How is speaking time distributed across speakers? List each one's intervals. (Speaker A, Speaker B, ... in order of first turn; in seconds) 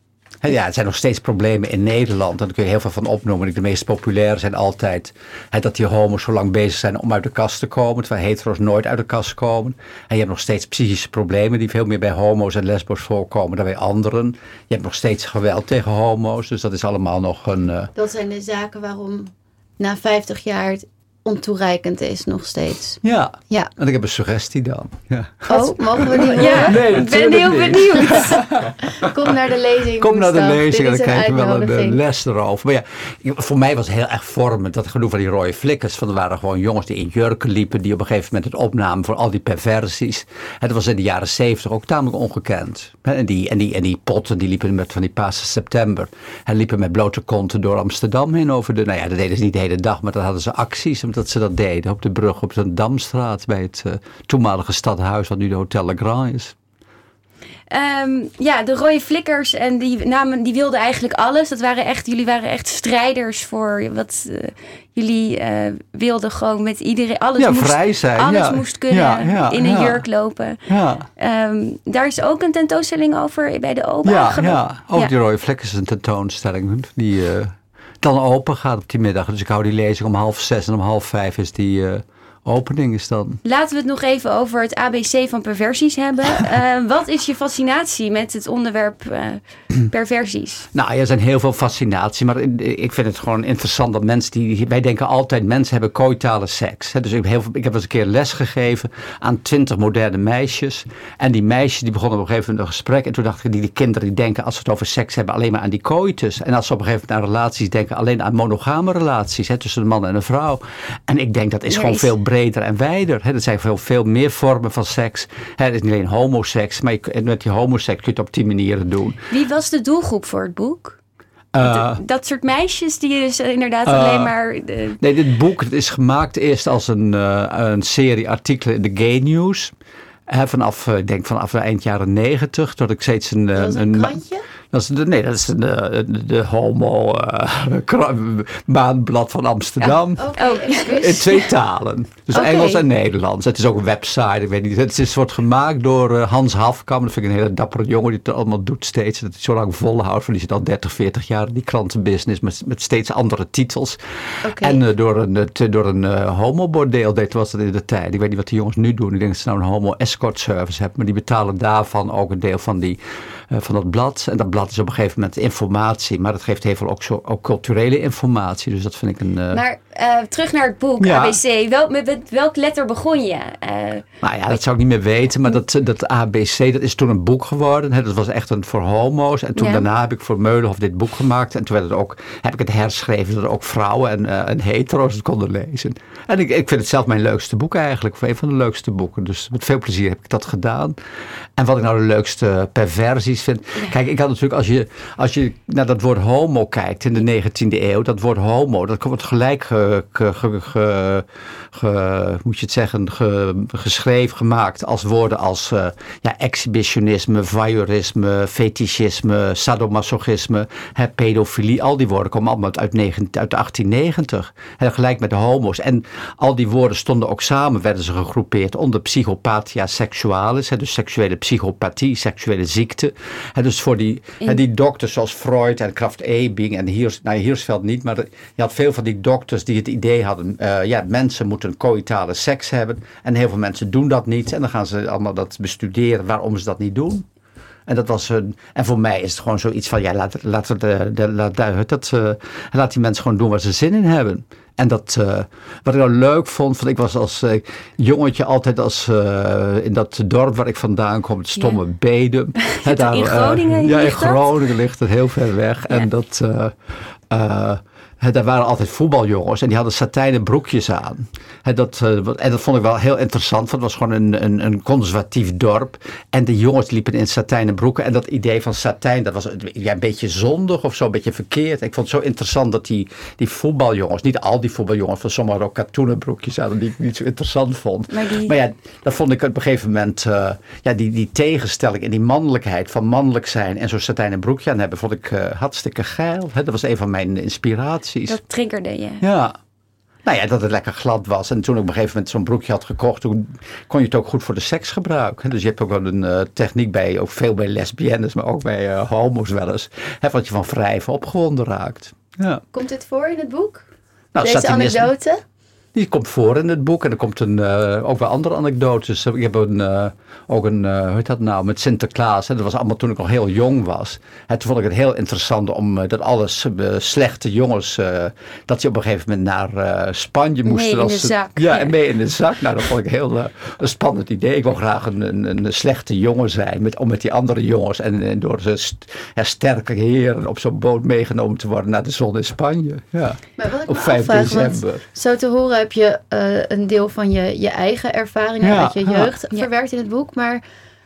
Speaker A: 0.4-17.9, 23.0-29.4, 29.9-56.5, 67.4-70.0, 70.7-71.1, 74.0-83.4, 90.7-119.2, 121.5-122.0, 123.8-124.3, 125.0-129.7, 130.3-140.3, 140.9-163.0, 163.5-169.6, 171.0-171.4, 174.2-191.0, 191.6-237.2, 237.9-288.4, 289.2-289.6, 290.2-302.6, 304.3-305.1, 305.9-335.0, 338.6-339.3
Speaker B: 17.9-23.7, 25.5-26.9, 28.1-28.4, 28.9-32.0, 133.5-134.4, 140.2-141.2, 154.4-154.8, 302.7-303.8, 304.4-305.4, 333.6-340.6
Speaker C: 25.5-28.4, 57.7-70.6, 71.2-75.1, 83.4-90.7, 111.7-112.1, 119.3-121.0, 121.6-125.0, 139.8-141.4, 142.3-142.8, 169.5-174.0, 179.6-179.8, 252.7-254.5, 278.1-278.5, 288.3-289.2, 320.6-321.9